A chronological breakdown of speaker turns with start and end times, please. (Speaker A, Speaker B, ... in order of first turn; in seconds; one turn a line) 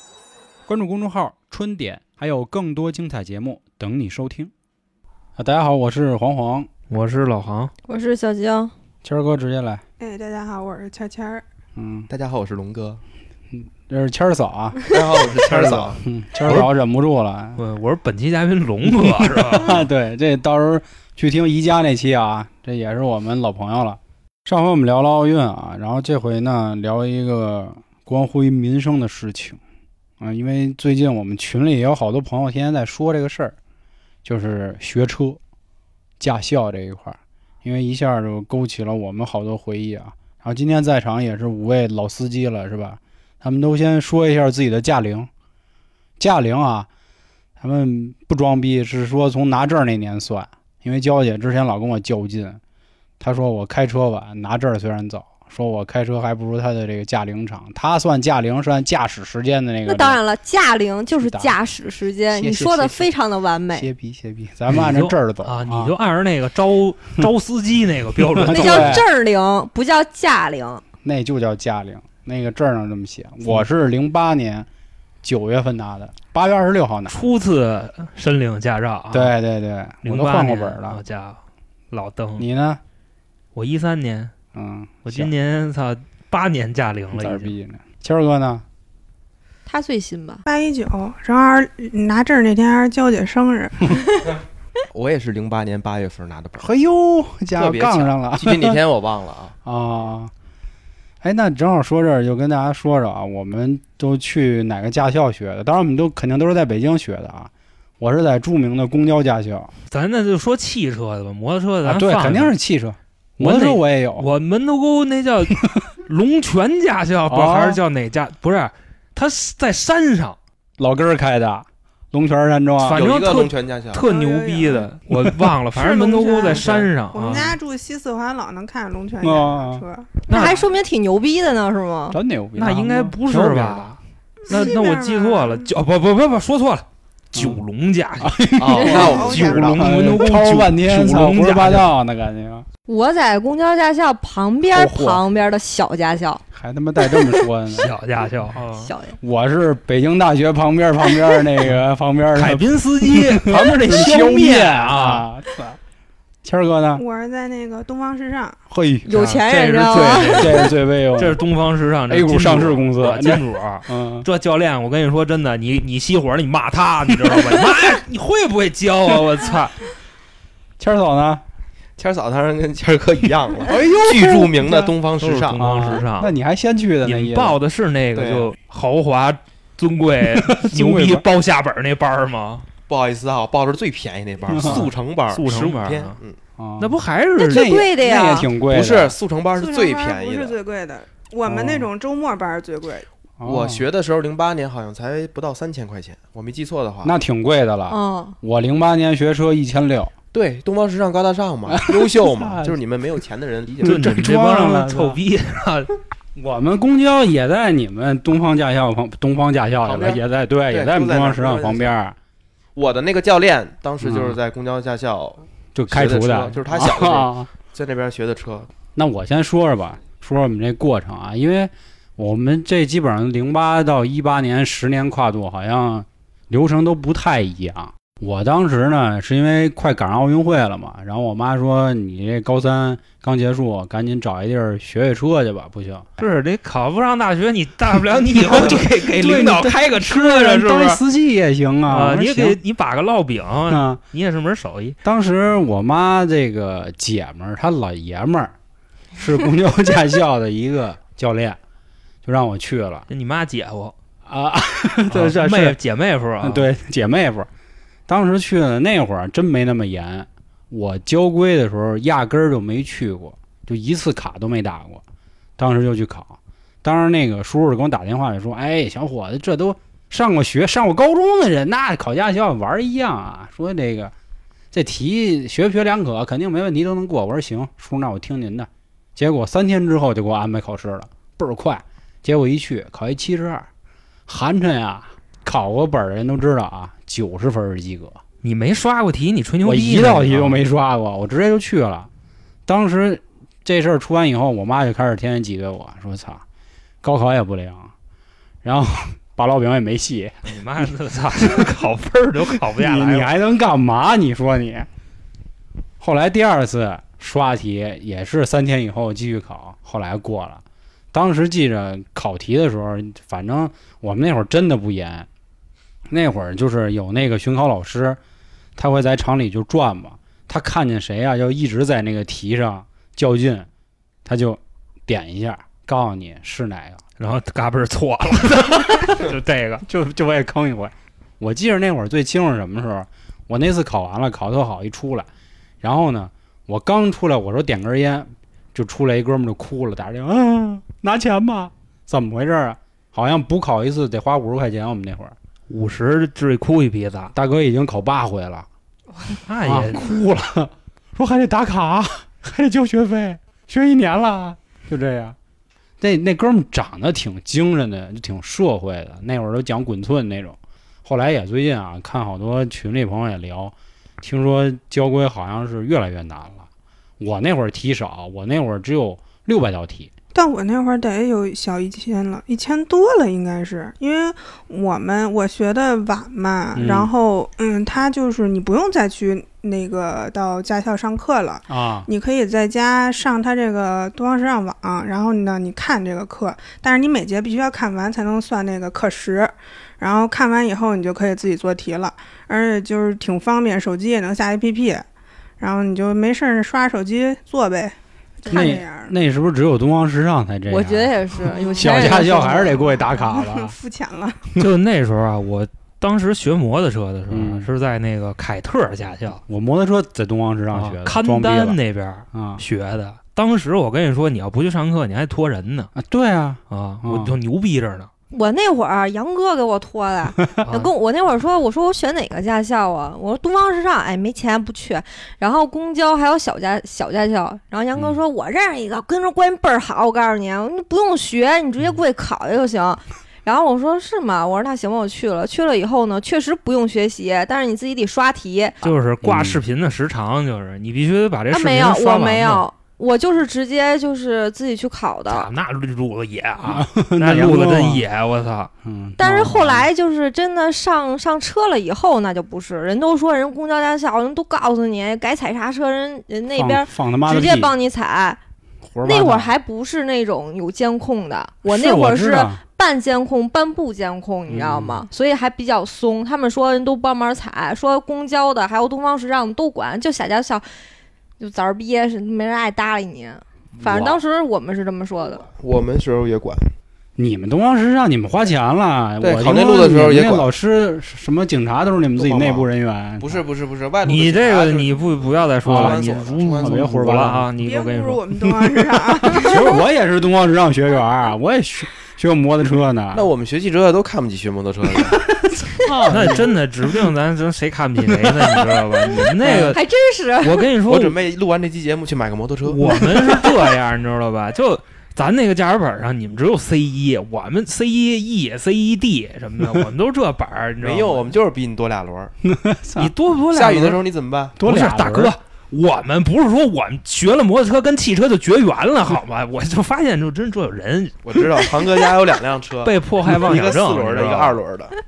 Speaker A: 0.7-4.5
Speaker A: 5.4-6.7
Speaker B: 6.9-7.7
Speaker C: 7.9-8.7
Speaker A: 9.0-9.8
Speaker D: 10.0-11.4
Speaker A: 11.8-12.1
Speaker E: 12.1-13.0
Speaker A: 13.5-14.8
Speaker E: 14.9-16.0
Speaker A: 15.3-17.6
Speaker B: 16.4-16.7
Speaker B: 17.6-19.8
Speaker A: 18.8-29.6
Speaker A: 30.2-33.6
Speaker A: 34.2-35.4
Speaker A: 36.2-45.3
Speaker A: 46.2-46.9
Speaker A: 47.6-52.6
Speaker A: 53.2-60.2
Speaker C: 59.9-63.9
Speaker A: 61.1-61.5
Speaker A: 62.3-63.1
Speaker A: 63.7-65.9
Speaker B: 64.7-69.0
Speaker A: 68.3-69.1
Speaker C: 68.5-70.8
Speaker A: 71.0-74.7
Speaker A: 75.2-77.2
Speaker B: 77.1-79.3
Speaker A: 79.1-81.0
Speaker B: 80.0-81.4
Speaker B: 81.9-82.5
Speaker A: 82.4-82.8
Speaker B: 83.5-84.3
Speaker A: 84.5-85.3
Speaker B: 85.1-87.5
Speaker A: 87.1-88.6
Speaker C: 89.7-90.4
Speaker D: 90.5-94.0
Speaker E: 94.9-96.7
Speaker A: 96.6-98.8
Speaker E: 97.5-99.5
Speaker A: 99.7-100.3
Speaker A: 101.2-109.7
Speaker B: 109.9-112.5
Speaker A: 111.8-114.3
Speaker B: 113.4-120.4
Speaker A: 117.3-117.8
Speaker A: 120.8-123.1
Speaker B: 122.8-127.6
Speaker E: 122.9-124.0
Speaker D: 124.0-124.9
Speaker D: 125.7-130.1
Speaker E: 126.6-126.9
Speaker A: 129.2-129.8
Speaker C: 130.3-132.2
Speaker B: 130.3-130.6
Speaker A: 132.1-133.9
Speaker B: 132.6-141.9
Speaker D: 134.4-135.7
Speaker A: 137.3-137.6
Speaker A: 138.2-142.7
Speaker E: 138.6-139.8
Speaker D: 138.8-139.8
Speaker C: 142.9-146.4
Speaker A: 144.7-145.2
Speaker A: 146.5-147.9
Speaker B: 147.7-148.9
Speaker C: 148.8-149.2
Speaker A: 149.2-155.8
Speaker B: 152.3-155.3
Speaker A: 156.4-157.0
Speaker D: 157.0-158.6
Speaker A: 158.7-161.4
Speaker C: 159.1-160.7
Speaker B: 159.2-169.8
Speaker A: 162.1-164.3
Speaker A: 170.8-171.4
Speaker E: 172.0-175.6
Speaker A: 173.7-174.9
Speaker B: 175.2-176.3
Speaker A: 175.6-177.6
Speaker B: 177.0-182.7
Speaker E: 178.2-178.5
Speaker A: 180.3-181.2
Speaker E: 182.9-186.4
Speaker A: 184.5-184.9
Speaker B: 184.5-186.2
Speaker A: 186.6-186.9
Speaker B: 186.8-187.7
Speaker C: 187.4-188.5
Speaker A: 187.5-189.2
Speaker E: 188.7-190.6
Speaker D: 189.5-193.1
Speaker A: 191.5-191.9
Speaker A: 193.4-193.8
Speaker E: 193.4-197.1
Speaker A: 197.0-200.1
Speaker C: 197.9-198.4
Speaker E: 200.3-203.9
Speaker A: 201.7-202.8
Speaker A: 203.8-205.2
Speaker B: 203.8-205.9
Speaker A: 206.4-212.2
Speaker E: 209.8-211.9
Speaker E: 212.8-218.7
Speaker A: 214.0-214.4
Speaker A: 215.8-217.5
Speaker A: 218.9-236.1
Speaker B: 236.2-241.0
Speaker A: 238.4-242.6
Speaker B: 241.9-245.0
Speaker A: 243.7-244.0
Speaker A: 245.0-248.5
Speaker A: 249.2-251.6
Speaker A: 252.2-253.1
Speaker B: 253.1-253.9
Speaker A: 254.3-255.8
Speaker B: 255.1-256.7
Speaker A: 256.4-257.5
Speaker A: 258.1-265.0
Speaker A: 265.6-274.1
Speaker A: 274.7-283.7
Speaker A: 284.3-288.2
Speaker B: 288.4-290.6
Speaker A: 289.6-292.1
Speaker A: 292.7-296.4
Speaker A: 297.0-297.9
Speaker A: 298.6-300.4
Speaker B: 300.5-303.3
Speaker A: 302.6-304.9
Speaker A: 306.0-315.3
Speaker A: 316.1-318.2
Speaker A: 318.8-323.7
Speaker A: 324.2-327.0
Speaker B: 327.2-329.9
Speaker A: 329.9-335.3
Speaker A: 335.8-345.4
Speaker B: 345.7-347.3
Speaker A: 347.3-348.7
Speaker B: 349.5-350.1
Speaker A: 349.6-355.4
Speaker A: 356.0-366.7
Speaker A: 367.2-370.1
Speaker D: 370.3-395.1
Speaker A: 376.8-377.1
Speaker A: 381.7-382.1
Speaker D: 395.6-399.1
Speaker A: 398.5-401.1
Speaker C: 400.7-402.8
Speaker D: 401.4-404.5
Speaker A: 401.8-403.8
Speaker B: 404.6-409.4
Speaker A: 407.3-407.7
Speaker A: 409.5-411.8
Speaker B: 410.7-415.9
Speaker A: 412.3-412.6
Speaker A: 415.9-417.4
Speaker B: 416.7-418.1
Speaker C: 418.3-438.9
Speaker A: 420.4-420.7
Speaker B: 438.8-442.7
Speaker A: 439.2-439.6
Speaker C: 441.5-445.5
Speaker B: 445.3-448.7
Speaker A: 446.6-448.1
Speaker A: 448.8-449.9
Speaker C: 449.2-458.4
Speaker A: 456.6-457.7
Speaker A: 458.9-459.5
Speaker C: 459.0-470.6
Speaker A: 461.6-462.6
Speaker A: 464.5-465.1
Speaker C: 471.4-475.5
Speaker E: 473.9-474.1
Speaker E: 475.4-476.7
Speaker A: 477.2-483.4
Speaker E: 479.2-480.5
Speaker E: 482.2-482.7
Speaker E: 483.2-487.3
Speaker B: 484.1-488.2
Speaker A: 485.6-486.0
Speaker A: 486.6-487.5
Speaker D: 487.6-489.7
Speaker A: 488.5-493.3
Speaker C: 489.4-489.6
Speaker E: 493.1-495.3
Speaker A: 495.1-496.6
Speaker B: 496.1-499.8
Speaker A: 498.1-499.8
Speaker C: 499.7-500.7
Speaker B: 500.4-501.2
Speaker E: 500.9-503.0
Speaker B: 502.6-511.3
Speaker E: 510.8-512.3
Speaker A: 512.4-513.1
Speaker B: 513.0-514.0
Speaker E: 513.5-514.6
Speaker A: 514.6-515.4
Speaker B: 514.6-521.7
Speaker E: 521.2-525.0
Speaker B: 522.8-524.6